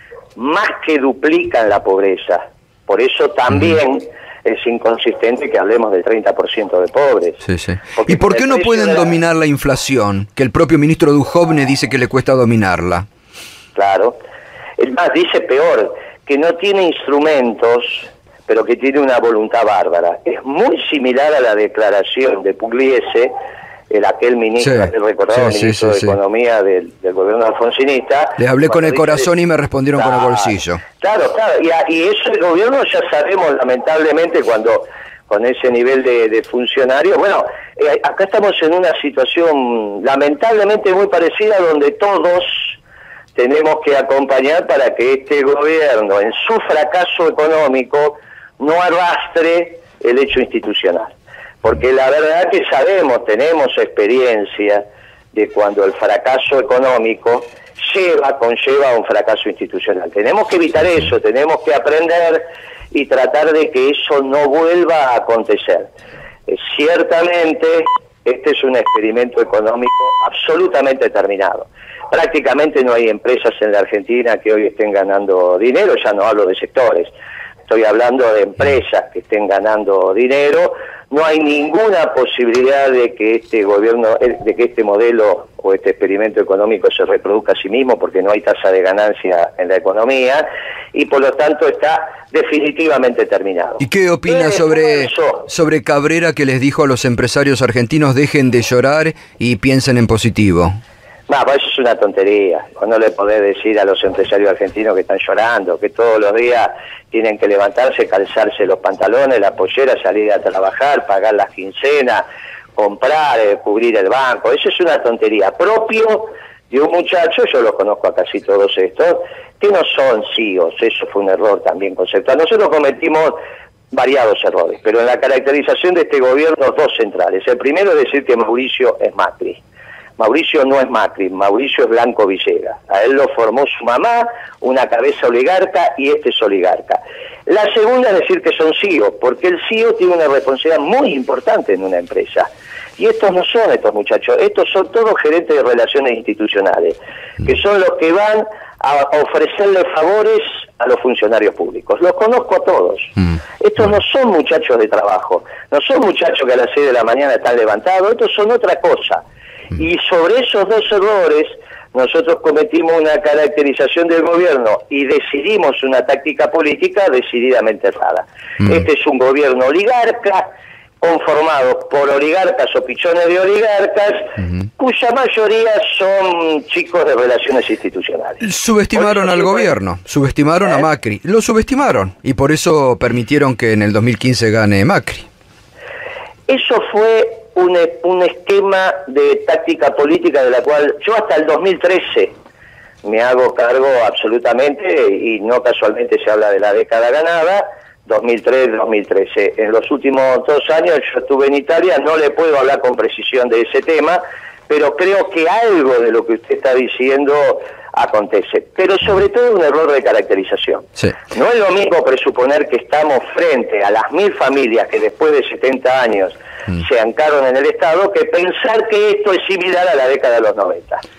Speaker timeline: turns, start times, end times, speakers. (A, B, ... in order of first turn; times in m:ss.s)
0:00.4-0:07.4 A
0:07.4-0:13.0 B
0:07.9-0:09.1 A
0:13.7-0:14.2 A
0:14.8-0:23.3 A
0:23.9-0:29.3 A
0:24.6-0:26.2 B
0:28.4-0:30.8 B
0:29.9-0:42.8 A
0:43.3-1:05.9 A
1:06.5-1:17.1 A
1:17.7-1:35.5 A
1:33.8-1:40.8 B
1:41.3-1:52.2 A
1:52.8-2:03.4 A
2:03.9-2:09.6 A
2:10.2-2:39.2 A
2:39.7-2:50.5 A
2:51.0-2:59.8 A
2:58.4-3:05.3 B
3:06.5-3:12.4 A
3:13.0-3:41.0 A